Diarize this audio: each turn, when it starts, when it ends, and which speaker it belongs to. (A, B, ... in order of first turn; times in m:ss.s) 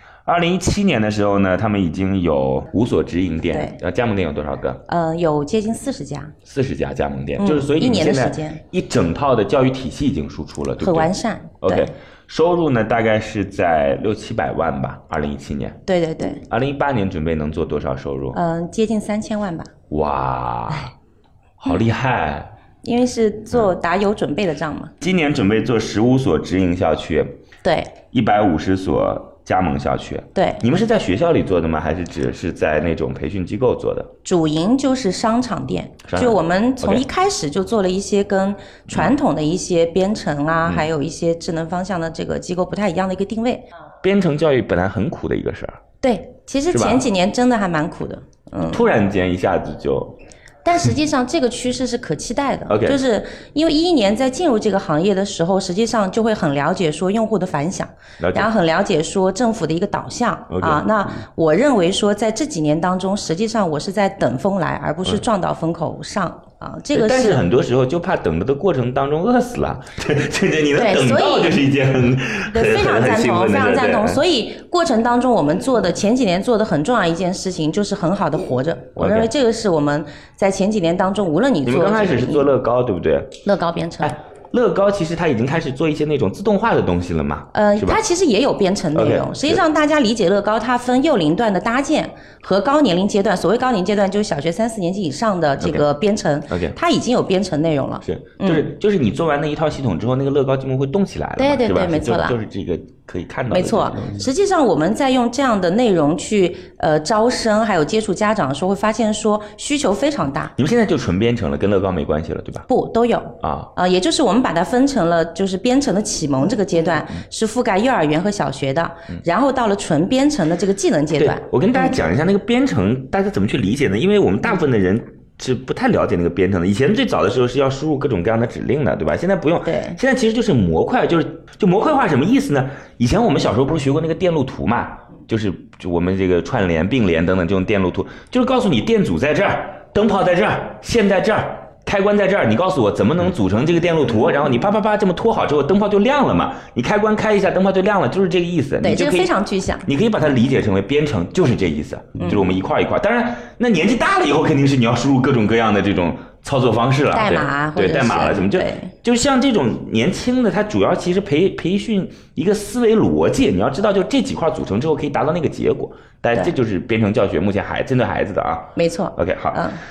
0:00.2-0:04.8 A
0:03.5-0:03.8 B
0:04.9-0:06.3 B
0:06.4-0:15.8 A
0:07.4-0:08.6 B
0:10.8-0:11.9 B
0:15.8-0:16.4 B
0:16.5-0:18.4 A
0:18.3-0:19.7 B
0:19.9-0:20.9 A
0:21.6-0:22.5 A
0:22.8-0:24.9 B
0:25.0-0:27.4 A
0:27.6-0:27.9 B
0:28.1-0:34.1 A
0:30.3-0:30.6 B
0:34.2-0:43.7 B
0:36.1-0:37.0 A
0:38.9-0:39.1 A
0:44.0-0:45.8 A
0:46.0-0:48.9 B
0:46.7-0:47.0 A
0:48.7-0:50.2 A
0:50.6-1:07.4 B
0:52.7-0:53.0 A
0:58.2-0:58.5 A
1:00.5-1:00.8 A
1:06.9-1:14.2 A
1:10.7-1:11.6 B
1:12.5-1:22.5 B
1:19.0-1:19.3 A
1:21.6-1:23.4 A
1:23.4-1:24.1 B
1:24.0-1:28.0 A
1:27.5-1:38.7 B
1:28.9-1:29.6 A
1:36.5-1:36.8 A
1:38.0-1:44.1 A
1:41.4-1:42.4 B
1:43.5-1:50.5 B
1:50.6-1:52.7 A
1:52.7-2:02.0 B
1:53.4-1:53.7 A
2:01.1-2:29.3 A
2:09.6-2:10.0 B
2:28.8-2:29.8 B
2:29.8-2:49.6 A
2:32.2-2:32.5 B
2:37.1-2:38.9 B
2:48.8-2:49.8 B